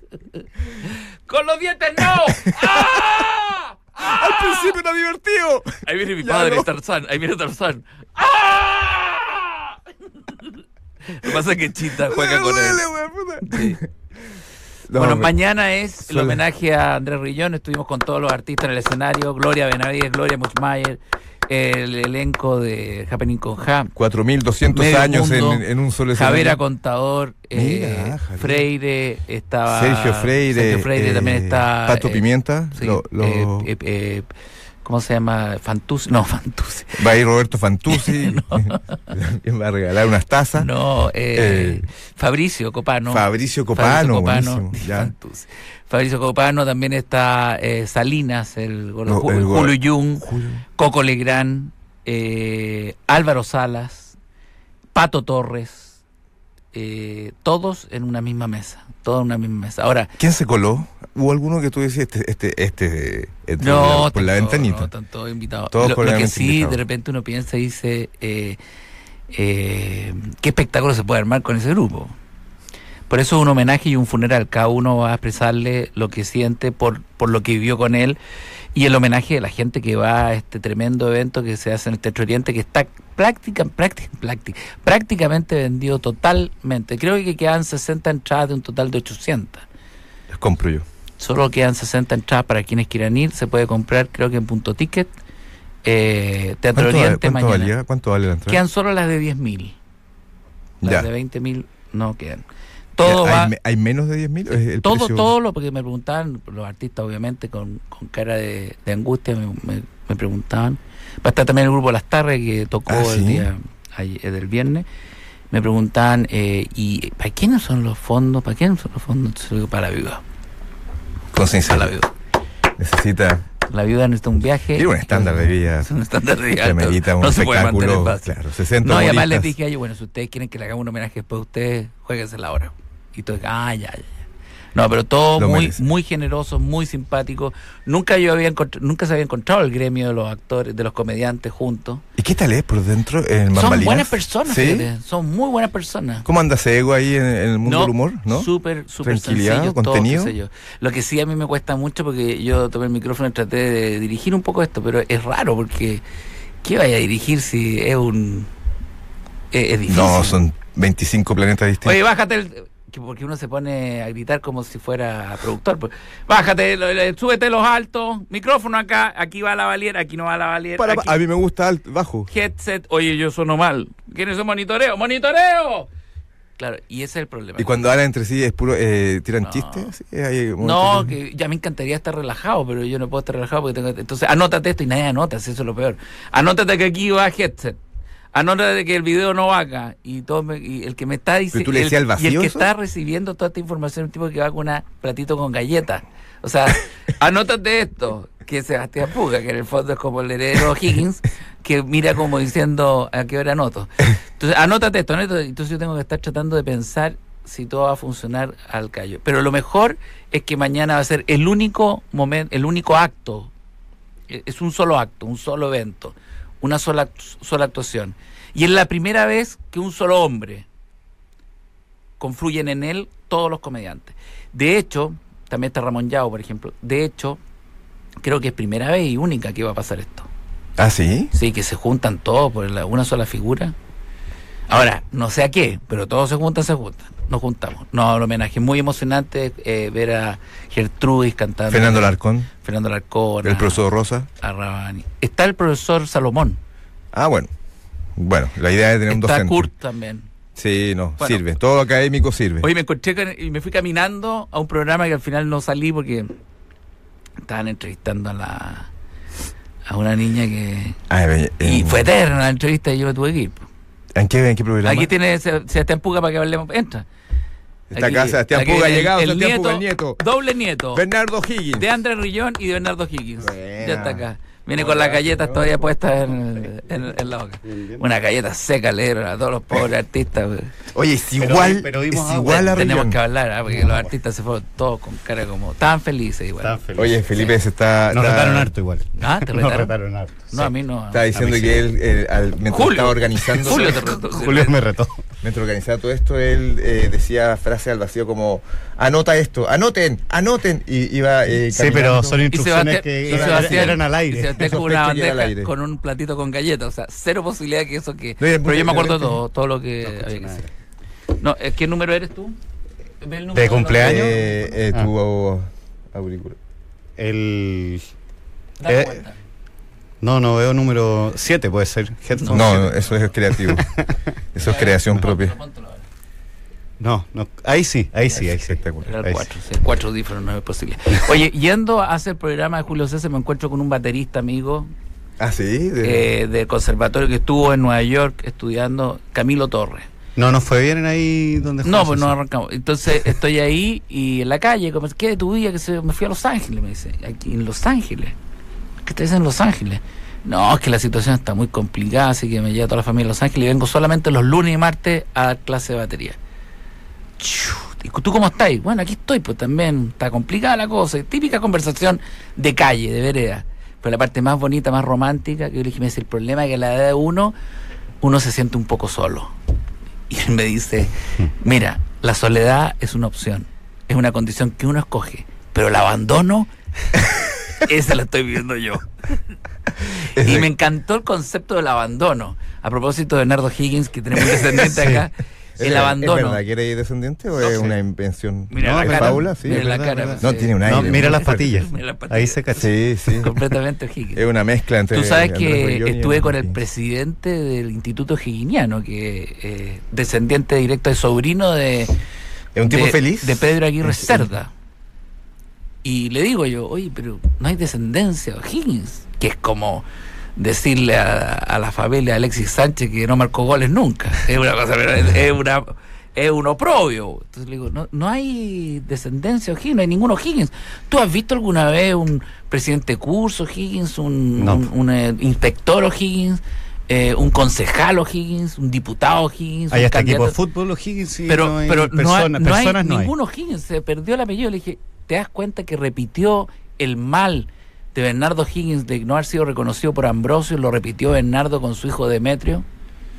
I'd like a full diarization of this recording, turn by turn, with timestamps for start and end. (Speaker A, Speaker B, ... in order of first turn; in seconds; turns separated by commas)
Speaker A: 0.8-4.7, Speaker B: 2.0-3.2, Speaker B: 4.0-6.7, Speaker A: 5.8-12.8, Speaker B: 11.9-13.9, Speaker A: 13.4-13.8, Speaker B: 14.9-15.3, Speaker A: 14.9-23.9, Speaker B: 16.1-16.4, Speaker B: 23.9-26.6, Speaker A: 24.7-32.2, Speaker B: 27.5-28.6, Speaker B: 29.7-33.7, Speaker A: 32.7-34.3, Speaker A: 34.8-37.0, Speaker B: 37.0-40.7, Speaker A: 37.9-39.0, Speaker A: 40.5-54.1, Speaker B: 41.3-41.8, Speaker B: 43.1-45.1, Speaker B: 49.0-50.6, Speaker A: 54.9-56.0, Speaker A: 56.7-60.1, Speaker B: 60.2-64.9, Speaker A: 63.6-68.6, Speaker B: 65.7-66.8, Speaker A: 69.3-72.1, Speaker A: 73.1-78.2, Speaker A: 78.7-89.7, Speaker B: 90.3-90.8, Speaker A: 91.2-95.1, Speaker A: 95.8-97.7, Speaker B: 96.7-98.6, Speaker A: 98.5-99.8, Speaker B: 100.8-101.1, Speaker A: 100.8-102.4, Speaker A: 103.0-103.5, Speaker B: 103.0-105.3, Speaker A: 104.8-114.8, Speaker B: 112.9-113.5, Speaker A: 115.5-120.2, Speaker B: 121.3-121.9, Speaker A: 121.7-122.1, Speaker B: 122.8-123.4, Speaker A: 123.7-128.3, Speaker B: 124.7-125.9, Speaker B: 126.6-129.5, Speaker A: 128.8-134.2, Speaker A: 134.7-142.0, Speaker B: 135.4-135.8, Speaker B: 142.2-144.9, Speaker A: 143.5-146.2, Speaker B: 146.2-148.5, Speaker A: 147.6-156.0, Speaker B: 149.0-150.3, Speaker A: 156.6-158.5, Speaker A: 159.5-160.4, Speaker B: 159.9-162.0, Speaker A: 161.8-171.2, Speaker B: 170.8-172.3, Speaker A: 172.3-175.9, Speaker A: 176.6-177.8, Speaker B: 177.6-181.2, Speaker A: 179.4-179.9, Speaker A: 180.6-187.8, Speaker A: 188.3-213.5, Speaker B: 191.5-192.7, Speaker A: 214.3-220.7, Speaker A: 222.2-227.4, Speaker A: 228.2-230.3, Speaker B: 230.8-231.3, Speaker A: 231.3-233.7, Speaker A: 234.7-243.8, Speaker B: 241.7-242.5, Speaker B: 243.4-244.3, Speaker A: 244.4-246.6, Speaker B: 247.1-247.5, Speaker B: 248.2-249.7, Speaker A: 249.1-250.3, Speaker B: 250.6-252.7, Speaker A: 252.6-256.3, Speaker A: 257.4-258.9, Speaker A: 259.9-261.0, Speaker B: 261.1-262.0, Speaker A: 261.6-263.7, Speaker B: 264.1-265.1, Speaker A: 264.8-267.1, Speaker B: 267.9-270.2, Speaker A: 267.9-271.0, Speaker B: 270.9-271.9, Speaker A: 271.8-280.7, Speaker B: 273.4-274.2, Speaker B: 274.7-275.9, Speaker C: 277.6-278.0, Speaker B: 280.9-283.2, Speaker C: 281.4-282.9, Speaker A: 282.7-286.8, Speaker C: 283.7-284.1, Speaker C: 286.6-287.2, Speaker B: 287.0-288.7, Speaker C: 288.1-290.7, Speaker A: 289.2-289.9, Speaker A: 290.5-291.8, Speaker B: 291.1-294.0, Speaker A: 292.7-294.8, Speaker C: 293.7-295.2, Speaker B: 295.4-302.5, Speaker C: 301.7-304.6, Speaker A: 302.5-310.7, Speaker B: 303.2-305.7, Speaker B: 308.4-309.4, Speaker C: 310.1-310.6, Speaker A: 311.4-312.6, Speaker A: 313.2-314.7, Speaker C: 313.5-314.4, Speaker B: 313.9-316.6, Speaker C: 317.2-318.0, Speaker A: 318.8-319.4, Speaker C: 318.9-319.2, Speaker C: 320.2-323.0, Speaker A: 322.3-322.8, Speaker B: 322.5-323.9, Speaker C: 323.5-324.1, Speaker B: 324.5-325.6, Speaker A: 324.6-326.0, Speaker C: 327.0-329.4, Speaker B: 328.4-329.1, Speaker A: 329.0-334.9, Speaker B: 335.4-336.3, Speaker A: 336.0-340.1, Speaker C: 340.4-342.3, Speaker A: 341.8-348.3, Speaker A: 349.0-356.4, Speaker A: 357.4-367.5, Speaker A: 368.2-369.5, Speaker A: 370.3-376.7, Speaker A: 377.8-379.4, Speaker A: 380.1-386.6, Speaker B: 380.4-380.7, Speaker C: 384.8-385.2, Speaker B: 385.8-391.7, Speaker A: 387.6-387.9, Speaker A: 388.7-392.8, Speaker C: 388.8-392.9, Speaker B: 392.8-393.5, Speaker A: 393.4-394.4, Speaker B: 394.3-396.8, Speaker A: 395.1-402.1, Speaker B: 402.7-404.5, Speaker A: 402.8-404.7, Speaker A: 406.0-410.0, Speaker A: 410.6-430.6, Speaker C: 424.6-424.9, Speaker C: 429.9-433.3, Speaker A: 431.5-442.8